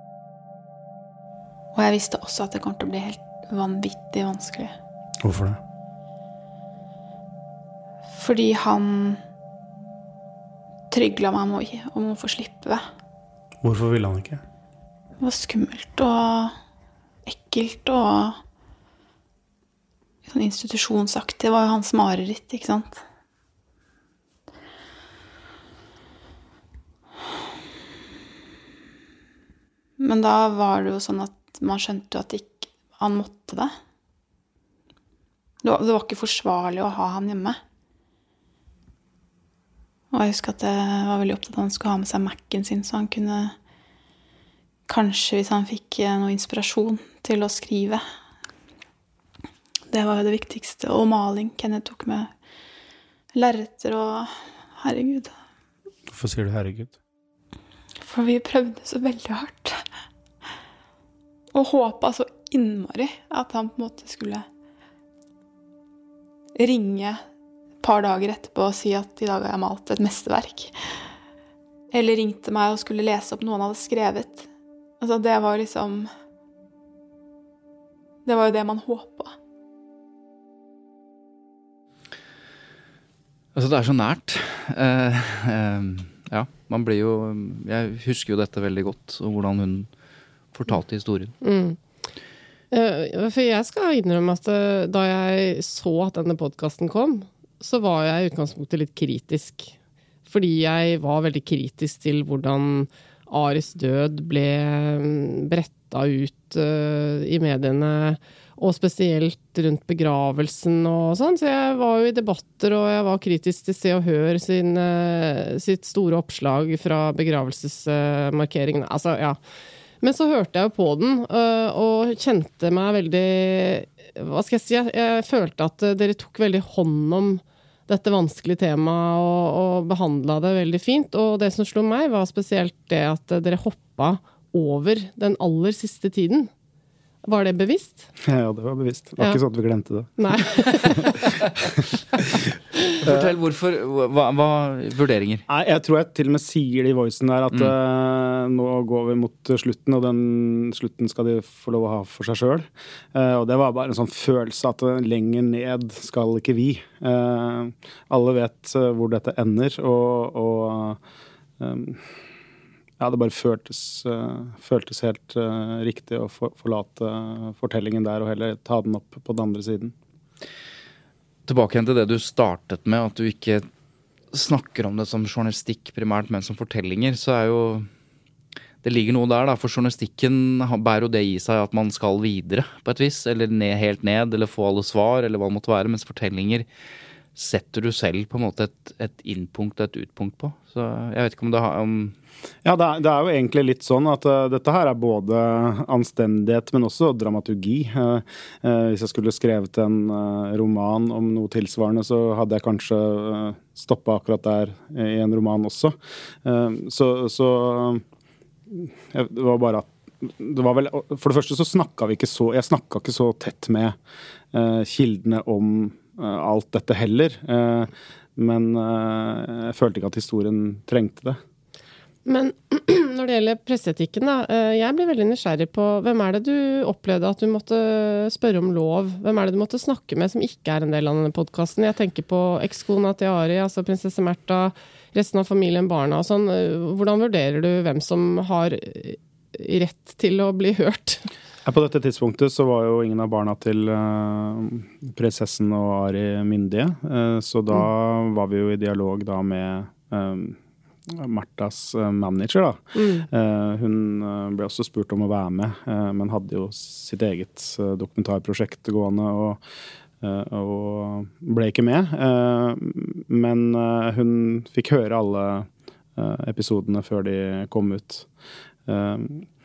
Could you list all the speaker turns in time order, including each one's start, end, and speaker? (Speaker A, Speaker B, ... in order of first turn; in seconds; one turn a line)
Speaker A: 1.7-4.7
Speaker B: 5.2-5.6
Speaker A: 8.1-9.2
Speaker A: 10.9-12.8
Speaker B: 13.6-14.4
Speaker A: 15.2-16.6
Speaker A: 17.2-18.4
Speaker A: 20.3-23.0
Speaker A: 30.0-33.7
Speaker A: 35.6-37.6
Speaker A: 40.1-43.5
Speaker A: 44.9-48.0
Speaker A: 49.9-52.3
Speaker A: 53.3-55.4
Speaker B: 56.1-56.9
Speaker A: 58.0-59.8
Speaker A: 61.5-64.5
Speaker A: 66.6-67.2
Speaker A: 67.8-70.7
Speaker A: 71.9-74.5
Speaker A: 75.0-76.1
Speaker A: 78.2-79.3
Speaker C: 83.5-89.9
Speaker C: 90.5-91.3
Speaker D: 91.4-91.8
Speaker D: 92.7-99.7
Speaker D: 100.3-119.4
Speaker D: 120.0-136.5
Speaker D: 137.2-138.1
Speaker B: 138.2-140.2
Speaker D: 140.2-141.3
Speaker B: 140.9-141.2
Speaker C: 143.0-145.4
Speaker B: 143.0-143.3
Speaker B: 145.5-161.0
Speaker B: 161.6-162.0
Speaker B: 163.0-169.9
Speaker C: 171.5-173.7
Speaker C: 174.3-177.9
Speaker C: 178.8-186.7
Speaker C: 187.3-192.1
Speaker B: 192.6-208.0
Speaker B: 208.7-214.0
Speaker B: 214.5-221.4
Speaker D: 222.2-241.2
Speaker B: 241.6-259.6
Speaker D: 252.9-253.3
Speaker B: 260.2-268.3
Speaker B: 268.9-269.4